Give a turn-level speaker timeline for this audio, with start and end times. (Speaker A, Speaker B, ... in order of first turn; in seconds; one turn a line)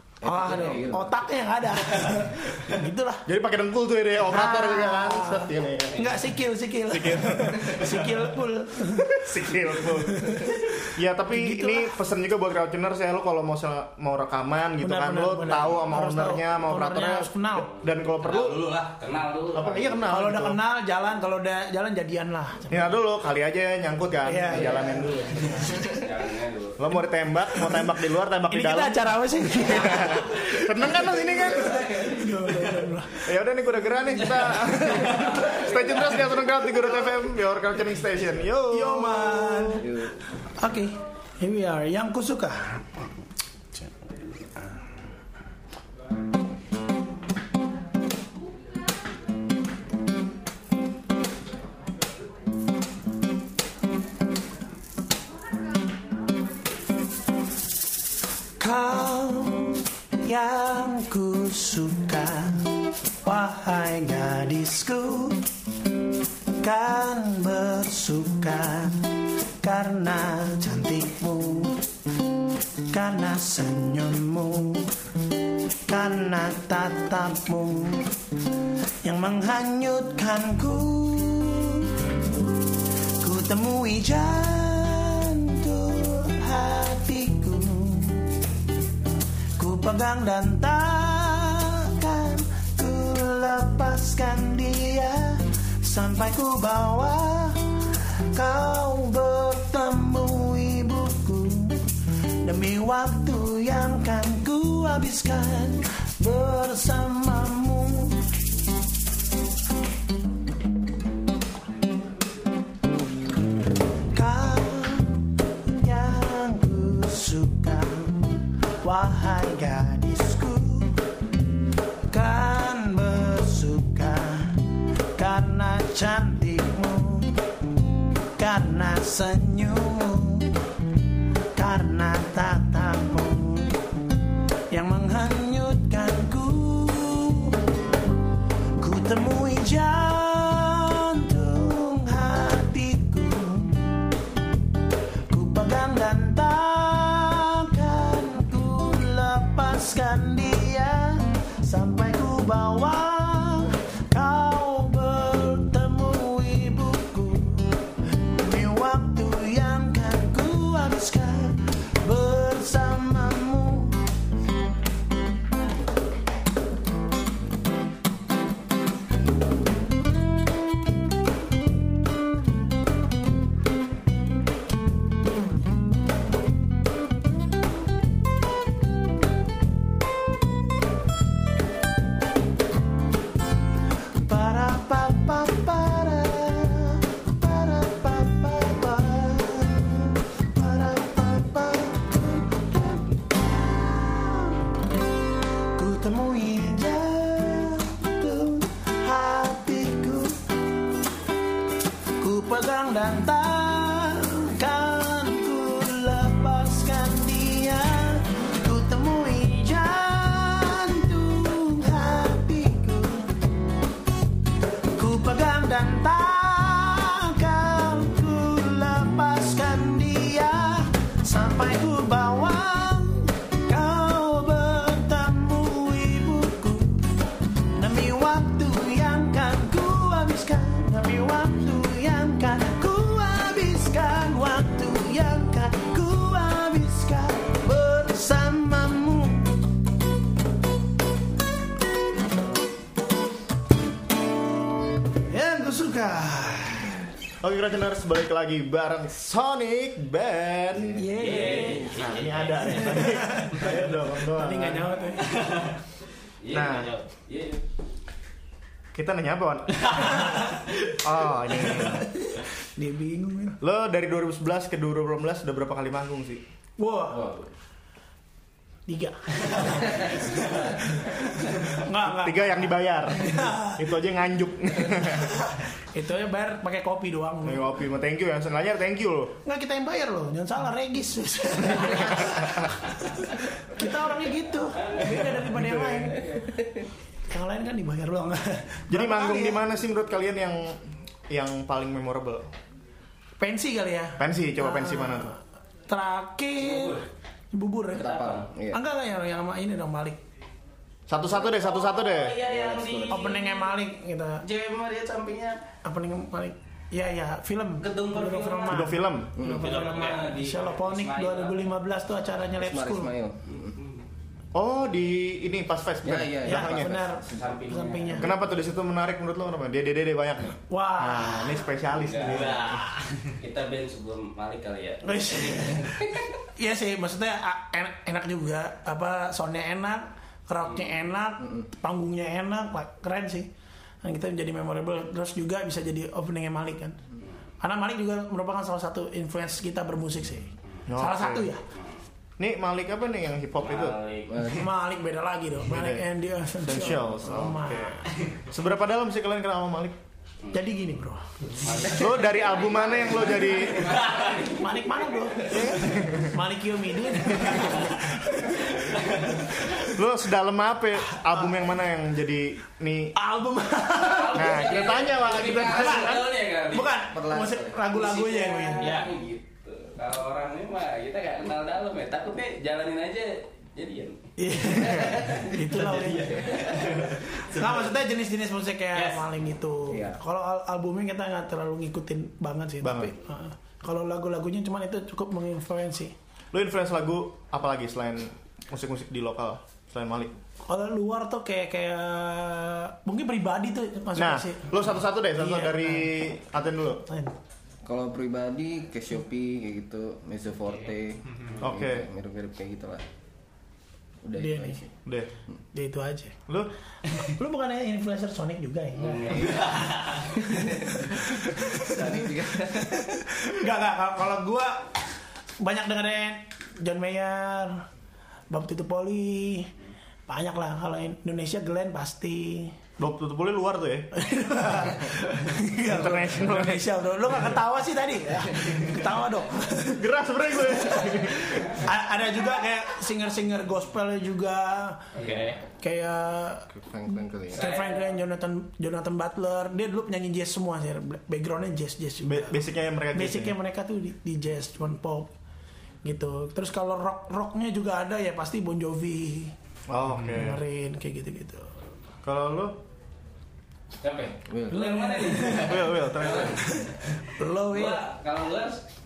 Speaker A: 0.2-1.3
Speaker B: 0.2-3.2
Speaker C: 3.3-6.0
Speaker B: 4.2-9.2
Speaker D: 5.9-6.2
Speaker C: 6.9-8.1
Speaker C: 8.9-18.6
Speaker B: 9.8-11.9
Speaker B: 14.8-17.7
Speaker E: 18.3-18.9
Speaker D: 18.8-20.1
Speaker C: 19.5-20.6
Speaker B: 20.1-23.0
Speaker C: 22.7-25.7
Speaker B: 24.3-26.0
Speaker D: 25.8-26.8
Speaker C: 26.8-32.0
Speaker B: 28.5-31.0
Speaker B: 31.8-33.3
Speaker C: 33.2-39.8
Speaker B: 38.7-39.9
Speaker A: 39.8-40.2
Speaker B: 40.6-43.0
Speaker B: 58.6-65.4
Speaker B: 66.6-71.8
Speaker B: 72.9-74.9
Speaker B: 75.9-78.2
Speaker B: 79.0-82.0
Speaker B: 83.2-88.3
Speaker B: 89.6-101.9
Speaker B: 102.4-108.2
Speaker B: 114.1-121.0
Speaker B: 122.1-127.5
Speaker B: 128.4-130.6
Speaker B: 131.6-133.9
Speaker B: 134.7-137.6
Speaker B: 138.8-144.0
Speaker B: 145.3-164.0
Speaker B: 184.2-194.7
Speaker B: 195.8-200.5
Speaker B: 202.2-213.5
Speaker B: 214.9-227.1
Speaker B: 227.8-239.6
Speaker B: 245.3-247.0
Speaker C: 247.4-254.9
Speaker A: 250.9-252.2
Speaker B: 251.0-251.9
Speaker D: 251.2-252.9
Speaker B: 252.7-253.8
Speaker B: 254.3-255.3
Speaker E: 255.3-255.7
Speaker D: 256.4-257.6
Speaker C: 256.5-256.9
Speaker C: 258.9-260.3
Speaker E: 259.9-260.9
Speaker C: 261.0-262.1
Speaker B: 261.9-263.6
Speaker C: 263.6-266.4
Speaker B: 266.8-267.3
Speaker D: 267.1-267.5
Speaker B: 268.9-273.8
Speaker C: 272.1-275.5
Speaker B: 275.9-277.7
Speaker C: 277.4-279.4
Speaker B: 279.4-286.4
Speaker C: 281.8-282.7
Speaker D: 284.8-285.3
Speaker C: 285.4-286.2
Speaker B: 287.3-289.6
Speaker C: 288.9-292.5
Speaker B: 293.4-295.4
Speaker C: 294.2-295.3
Speaker B: 295.9-298.1
Speaker D: 296.6-297.1
Speaker A: 297.9-298.8
Speaker D: 298.0-298.5
Speaker B: 298.7-300.2
Speaker C: 301.1-302.4
Speaker D: 301.4-303.8
Speaker A: 302.4-303.3
Speaker B: 303.1-304.4
Speaker D: 304.4-305.6
Speaker B: 305.8-313.1
Speaker D: 307.8-308.8
Speaker C: 308.7-309.3
Speaker A: 309.4-309.8
Speaker D: 309.6-311.7
Speaker E: 309.7-310.3
Speaker A: 312.6-313.8
Speaker D: 313.6-314.0
Speaker C: 314.5-317.0
Speaker A: 316.0-317.5
Speaker B: 316.4-318.3
Speaker D: 317.3-318.3
Speaker C: 318.2-322.8
Speaker B: 320.7-321.6
Speaker D: 322.0-322.5
Speaker E: 322.2-323.4
Speaker D: 323.4-326.3
Speaker B: 325.0-326.0
Speaker B: 326.6-333.5
Speaker B: 334.0-337.0
Speaker B: 337.6-341.6
Speaker C: 340.9-341.5
Speaker C: 342.4-344.0
Speaker D: 343.6-344.4
Speaker A: 344.3-344.7
Speaker B: 344.5-348.1
Speaker C: 345.7-346.1
Speaker C: 346.6-350.0
Speaker B: 350.5-351.6
Speaker D: 351.6-355.6
Speaker C: 351.9-354.0
Speaker E: 354.0-354.4
Speaker B: 354.5-355.6
Speaker C: 355.5-356.4
Speaker B: 356.2-358.8
Speaker E: 359.0-359.3
Speaker C: 359.9-363.1
Speaker B: 363.1-364.6
Speaker D: 364.0-366.9
Speaker C: 364.3-366.4
Speaker B: 365.7-369.0
Speaker A: 367.1-367.8
Speaker D: 367.9-375.4
Speaker E: 368.8-369.1
Speaker B: 374.4-376.5
Speaker E: 375.5-378.0
Speaker D: 376.5-376.9
Speaker B: 377.5-386.1
Speaker E: 378.9-379.2
Speaker A: 379.9-380.2
Speaker C: 382.8-383.1
Speaker C: 386.5-390.4
Speaker B: 390.7-396.1
Speaker C: 394.1-397.0
Speaker B: 397.1-397.4
Speaker A: 397.9-403.1
Speaker E: 401.3-401.6
Speaker C: 401.6-402.1
Speaker A: 404.2-404.9
Speaker B: 404.4-404.8
Speaker B: 405.7-406.4
Speaker B: 407.2-409.6
Speaker D: 409.0-409.9
Speaker E: 409.4-410.4
Speaker B: 410.6-414.9
Speaker A: 411.1-413.2
Speaker B: 415.6-417.8
Speaker B: 418.5-419.7
Speaker B: 420.3-422.8
Speaker C: 423.0-424.1
Speaker B: 424.1-430.0
Speaker C: 425.8-426.9
Speaker C: 429.9-431.8
Speaker B: 430.7-435.0
Speaker D: 435.1-435.6
Speaker A: 435.2-435.6
Speaker B: 435.8-436.7
Speaker A: 436.7-437.7
Speaker D: 437.5-438.2
Speaker B: 437.5-442.6
Speaker C: 442.2-443.6
Speaker B: 443.1-445.3
Speaker B: 446.0-449.5
Speaker C: 449.9-450.6
Speaker B: 450.2-451.8
Speaker C: 452.2-452.8
Speaker D: 454.0-456.8
Speaker A: 454.5-455.1
Speaker B: 454.7-455.9
Speaker C: 455.6-456.7
Speaker B: 456.6-458.0
Speaker D: 457.7-458.8